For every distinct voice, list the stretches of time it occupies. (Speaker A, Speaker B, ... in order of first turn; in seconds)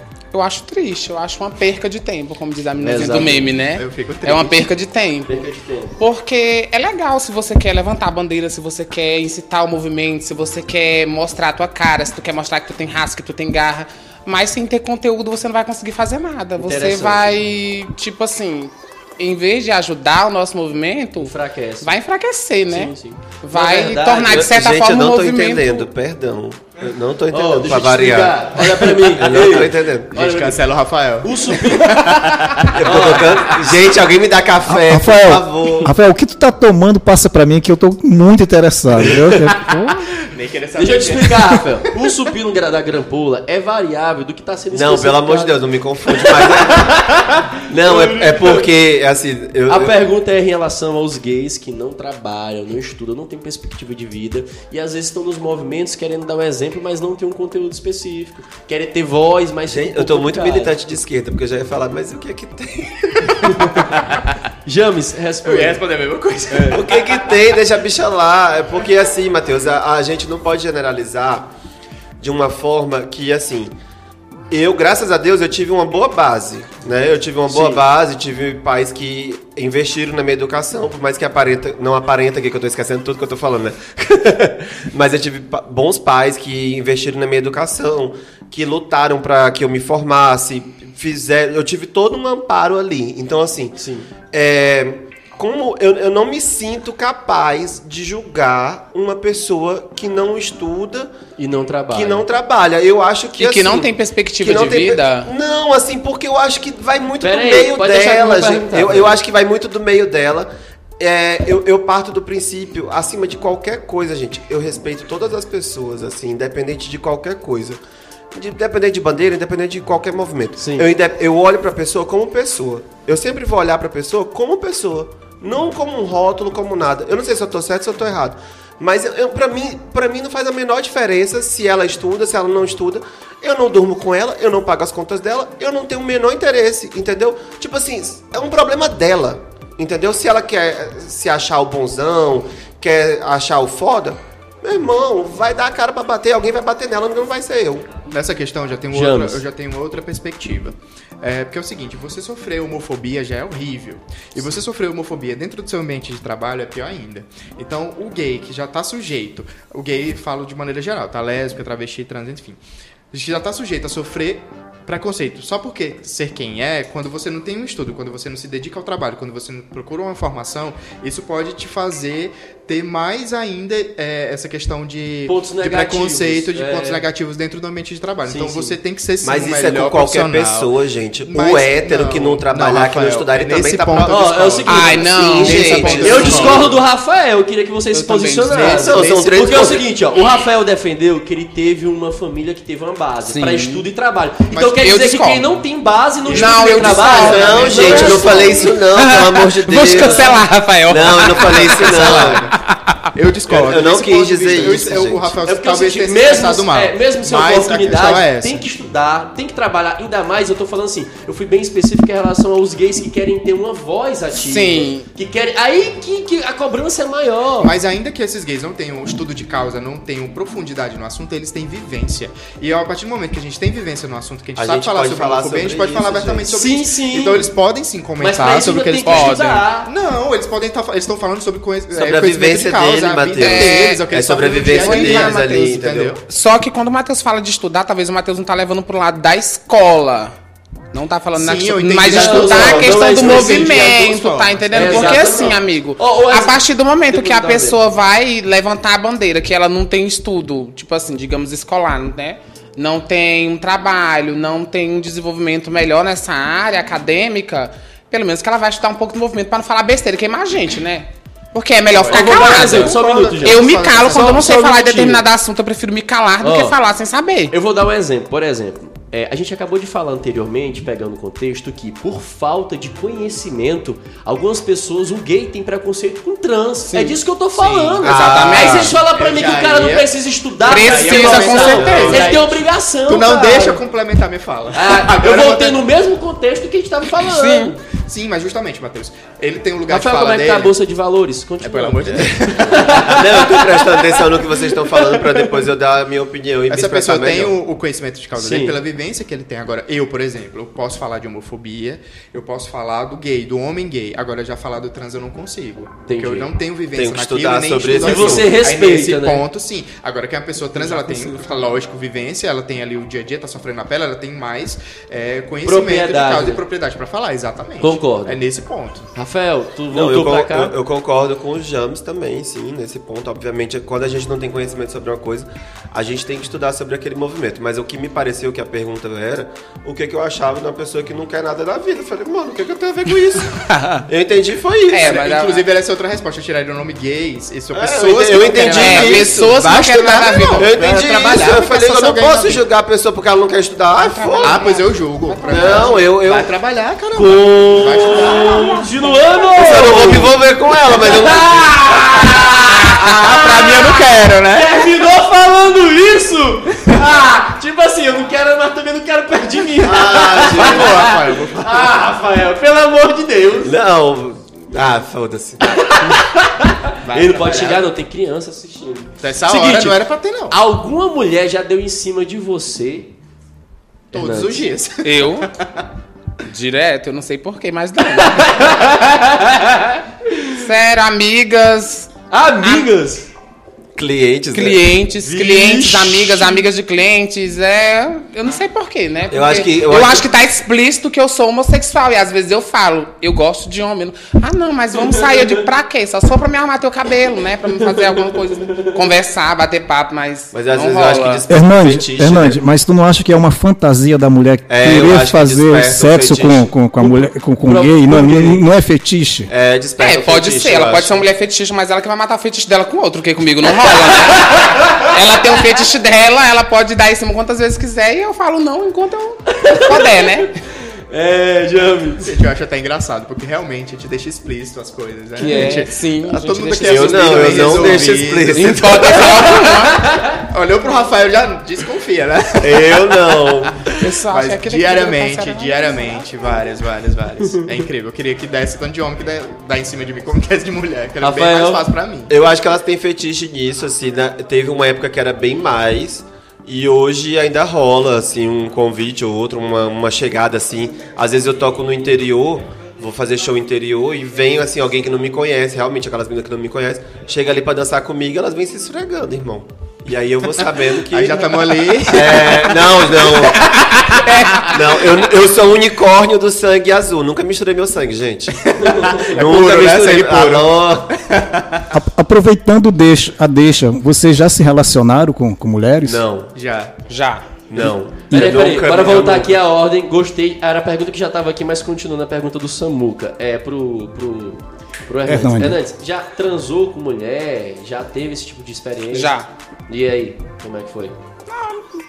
Speaker A: 0.3-5.4, 6.0-25.9, 103.4-105.3, 184.7-186.7, 187.9-188.9, 193.2-193.8, 194.8-195.5, 196.3-203.0, 214.3-215.1, 229.1-229.6, 233.4-240.3, 240.9-267.5, 276.9-278.9, 280.6-282.4, 287.2-287.7, 334.9-335.7, 338.6-342.6, 344.0-346.0, 375.0-375.5, 376.4-378.7, 380.5-382.1, 382.6-382.9, 384.5-401.4, 410.0-420.5, 425.4-430.1, 434.0-436.2, 477.1-477.5, 489.1-489.5, 491.5-491.8
Speaker B: 2.8-3.5, 5.3-6.0, 16.6-17.4, 21.2-21.9, 22.7-24.5, 27.3-30.7, 31.2-33.7, 39.0-39.2, 40.8-48.7, 49.7-60.7, 63.5-63.9, 64.7-65.8, 66.5-66.8, 77.5-77.8, 93.8-94.1, 101.4-102.2, 107.2-109.2, 120.6-120.9, 148.9-149.4, 175.2-177.1, 178.2-178.8, 184.1-185.4, 186.0-198.7, 205.4-217.7, 226.5-227.5, 228.2-229.9, 242.0-244.0, 244.7-247.8, 262.1-265.2, 266.4-266.8, 267.5-283.8, 284.7-287.8, 289.9-295.6, 298.3-298.8, 306.1-306.5, 307.9-309.4, 310.8-311.4, 315.6-316.6, 317.8-318.4, 319.1-320.7, 347.9-350.4, 350.9-363.7, 365.7-373.1, 374.1-374.7, 378.2-380.6, 382.3-383.3, 385.2-386.6, 395.1-395.4, 407.1-408.6, 414.3-415.0, 419.5-422.4, 425.4-425.7, 429.2-430.3, 441.2-441.9, 468.8-469.4, 478.3-489.3, 489.9-491.1
Speaker C: 3.7-4.7, 30.1-33.1, 40.3-41.6, 65.4-67.2, 148.1-162.6, 163.1-180.7, 181.2-186.8, 188.9-189.2, 194.5-194.8, 196.2-198.6, 201.3-202.6, 203.1-208.6, 217.6-236.2, 241.3-245.5, 261.9-264.5, 278.9-280.1, 280.6-285.8, 287.9-290.7, 291.6-293.2, 296.7-319.1, 335.0-341.7, 344.4-350.1, 352.3-354.9, 360.5-362.0, 367.0-367.9, 369.2-370.6, 374.1-375.8, 422.2-429.2, 430.3-442.3, 461.0-465.0, 468.7-471.9, 476.5-476.9
Speaker D: 24.3-30.1, 32.8-35.9, 44.7-47.0, 47.7-49.9, 59.7-63.3, 66.7-71.5, 72.2-73.7, 74.5-93.8, 94.3-101.1, 101.9-117.8, 118.3-147.9, 179.2-186.8, 188.6-189.9, 197.2-202.5, 203.5-205.3, 224.6-226.6, 231.9-236.2, 278.0-279.0, 281.7-282.3, 293.1-297.6, 306.9-308.5, 319.9-335.2, 337.7-339.8, 340.5-344.6, 345.4-346.5, 347.1-348.8, 349.5-351.8, 359.8-361.1, 363.6-365.9, 383.9-384.9, 389.3-390.3, 400.5-402.6, 404.7-406.9, 409.5-411.2, 426.8-429.5, 432.6-433.8, 442.3-463.8, 464.6-471.1, 476.0-476.5, 477.7-479.6
Speaker E: 34.7-40.0, 401.5-409.5, 471.9-476.2, 485.2-485.8